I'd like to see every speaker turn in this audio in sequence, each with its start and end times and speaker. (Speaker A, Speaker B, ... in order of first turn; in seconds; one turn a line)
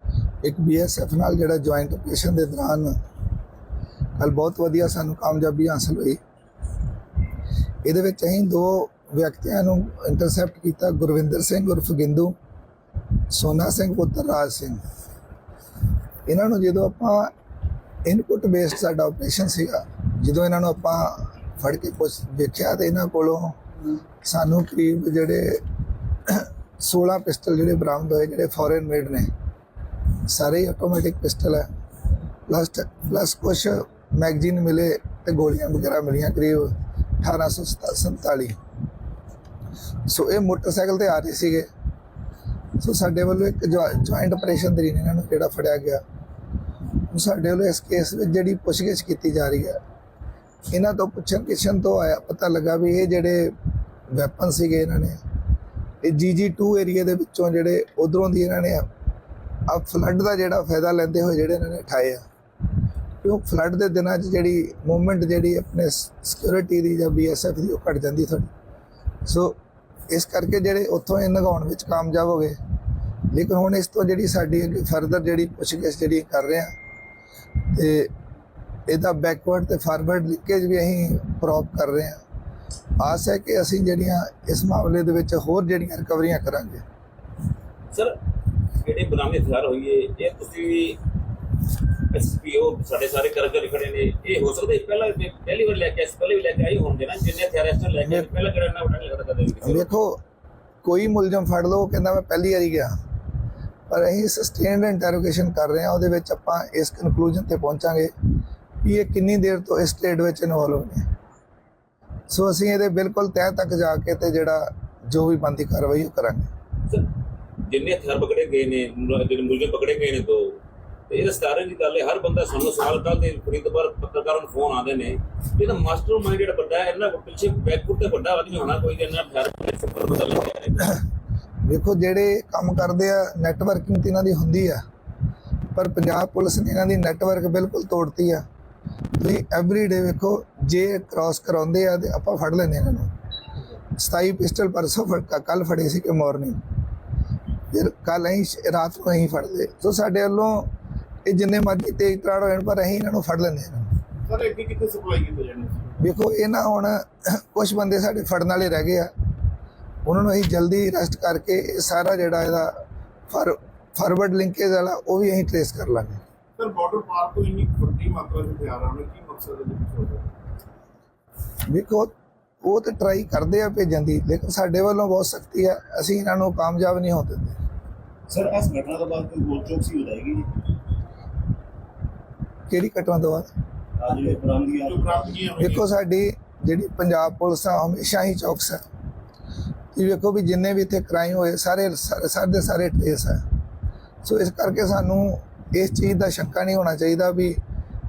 Speaker A: 0.4-2.9
Speaker A: 4.2-6.2
Speaker A: 7.8-12.3
Speaker A: 13.3-14.8
Speaker A: 16.3-17.3
Speaker A: 18.1-23.6
Speaker A: 24.2-25.6
Speaker A: 26.2-29.3
Speaker A: 30.3-31.7
Speaker A: 32.5-38.6
Speaker A: 40.0-41.7
Speaker A: 42.8-46.0
Speaker A: 47.0-49.8
Speaker A: 50.7-53.5
Speaker A: 54.1-55.2
Speaker A: 56.0-58.9
Speaker A: 59.7-62.2
Speaker A: 63.2-68.5
Speaker A: 69.2-69.6
Speaker A: 70.1-72.6
Speaker A: 73.3-76.7
Speaker A: 77.7-78.1
Speaker A: 78.9-82.2
Speaker A: 83.0-86.8
Speaker B: 87.9-88.2
Speaker B: 88.8-91.0
Speaker B: 92.0-99.9
Speaker A: 99.6-100.2
Speaker A: 100.8-102.9
Speaker A: 103.9-108.1
Speaker A: 108.8-111.1
Speaker A: 112.3-116.5
Speaker B: 117.6-131.0
Speaker A: 131.6-134.8
Speaker A: 135.7-138.4
Speaker A: 139.2-143.1
Speaker A: 143.9-146.6
Speaker A: 147.7-150.7
Speaker A: 151.2-153.9
Speaker C: 154.2-156.0
Speaker A: 156.0-159.1
Speaker A: 160.0-166.2
Speaker C: 166.6-170.3
Speaker A: 171.7-177.6
Speaker D: 178.3-180.4
Speaker A: 182.7-183.5
Speaker D: 184.0-185.4
Speaker C: 184.8-185.9
Speaker A: 185.6-188.8
Speaker A: 189.9-193.4
Speaker A: 194.2-197.6